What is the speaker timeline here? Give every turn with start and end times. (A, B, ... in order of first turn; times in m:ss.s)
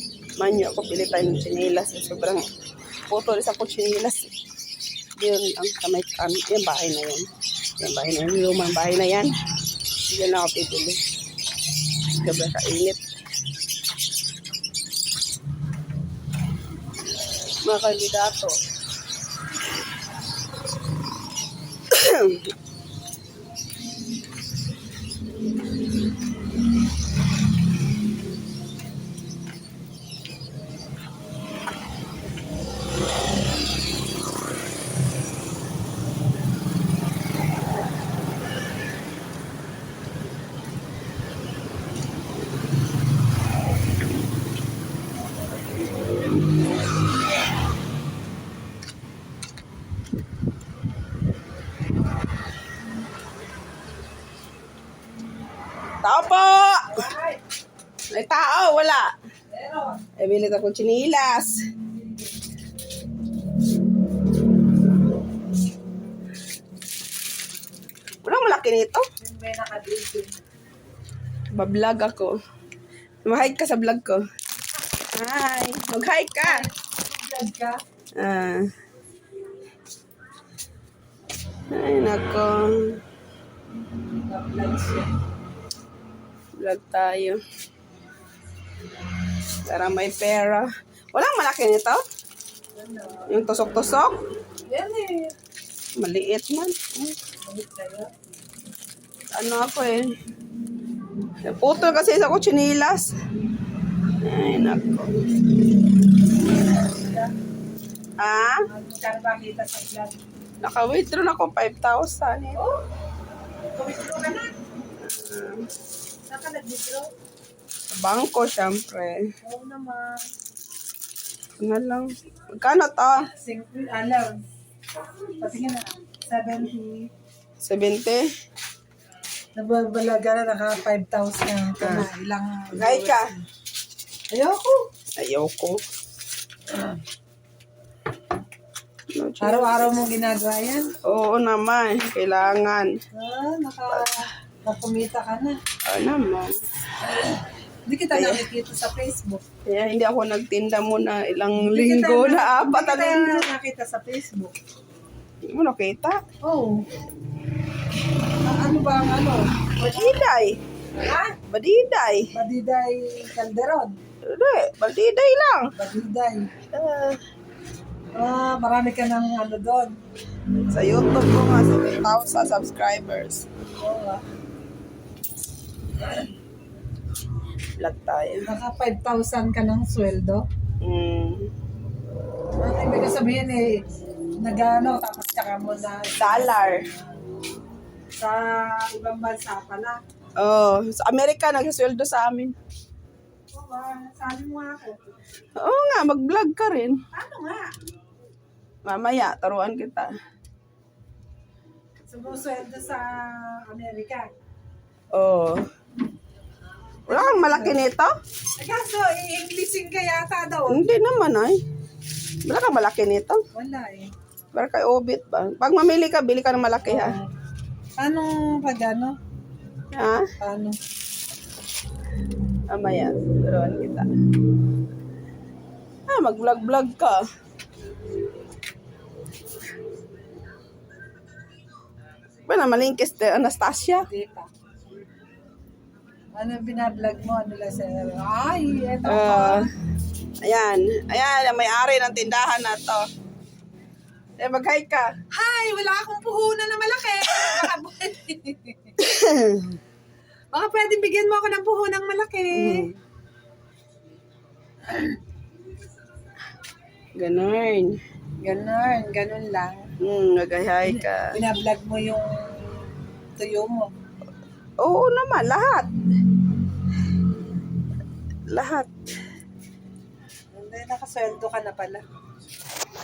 0:00.4-0:02.5 A
0:03.1-0:04.3 A
0:05.2-0:07.3 A
0:07.8-0:09.4 A
0:10.0-0:11.0 A
0:12.1-0:13.0 A
0:17.6-0:18.6 A
0:21.9-0:22.5 A
0:56.0-0:57.0 A
0:56.9-0:57.4 B
0:58.1-0:59.1 A
0:59.5-1:00.1 B
1:00.2-1:01.6 A
1:08.2-1:09.0 A
1:09.2-1:10.4 B
1:11.6-1:12.4 A
1:13.2-1:14.2 A
1:15.0-1:16.6 A
1:16.4-1:17.8 B
1:18.2-1:18.7 A
1:21.7-1:23.0 A
1:24.3-1:25.2 B
1:26.6-1:27.4 A
1:29.6-1:32.0 A
1:32.8-1:33.5 B
1:33.3-1:34.2 A
1:34.7-1:35.3 B
1:36.0-1:37.2 A
1:37.4-1:38.1 B
1:39.4-1:40.1 A
1:41.4-1:43.1 A
1:44.2-1:45.1 A
1:46.6-1:47.3 B
1:48.2-1:48.6 A
1:48.7-1:50.2 B
1:50.6-1:52.6 A
1:53.8-1:54.5 B
1:55.0-1:55.6 A
1:56.3-1:57.1 B
1:58.0-1:59.2 A
1:59.4-2:00.3 B
2:01.6-2:03.3 A
2:03.4-2:04.4 B
2:05.3-2:07.1 B
2:07.6-2:08.3 A
2:09.6-2:13.4 B
2:11.8-2:12.1 A
2:12.7-2:13.3 A
2:14.3-2:14.8 B
2:15.2-2:15.8 A
2:19.1-2:20.0 A
2:19.4-2:20.9 B
2:21.0-2:22.9 A
2:23.1-2:25.6 B
2:25.8-2:26.5 A
2:27.9-2:29.4 B
2:28.1-2:28.4 A
2:29.7-2:33.5 A
2:31.6-2:34.6 B
2:35.5-2:36.2 A
2:36.4-2:36.8 B
2:38.4-2:40.2 B
2:39.9-2:40.6 A
2:41.0-2:41.4 B
2:41.5-2:42.3 A
2:42.3-2:43.9 B
2:44.2-2:45.7 A
2:45.8-2:46.5 B
2:46.7-2:47.2 A
2:48.2-2:49.9 B
2:50.7-2:53.5 A
2:53.8-2:54.2 B
2:57.8-2:58.5 A
2:58.5-3:00.4 B
3:00.8-3:01.5 A
3:02.6-3:03.8 B
3:04.4-3:07.0 B
3:06.2-3:06.8 A
3:08.2-3:10.0 B
3:10.4-3:12.5 A
3:13.5-3:15.1 B
3:15.6-3:17.0 A
3:17.1-3:17.7 B
3:18.8-3:20.1 A
3:22.1-3:24.3 B
3:25.1-3:25.6 A
3:27.1-3:27.8 B
3:27.1-3:28.1 A
3:28.6-3:30.9 B
3:30.7-3:31.6 A
3:32.4-3:33.4 A
3:33.5-3:34.1 B
3:34.5-3:37.2 A
3:36.9-3:37.3 B
3:38.0-3:39.2 B
3:39.9-3:40.3 A
3:40.4-3:40.8 B
3:42.7-3:44.1 A
3:46.1-3:47.2 A
3:52.5-3:54.1 A
3:54.0-3:54.5 B
3:56.4-3:59.7 B
3:59.0-3:59.7 A
4:00.4-4:03.1 A
4:04.4-4:05.1 A
4:05.3-4:09.0 B
4:09.0-4:09.7 A
4:10.5-4:12.9 B
4:12.5-4:13.0 A
4:17.2-4:18.0 A
4:18.4-4:19.9 B
4:20.0-4:21.4 A
4:20.8-4:23.9 B
4:24.8-4:25.9 A
4:28.5-4:28.9 A
4:30.5-4:32.0 B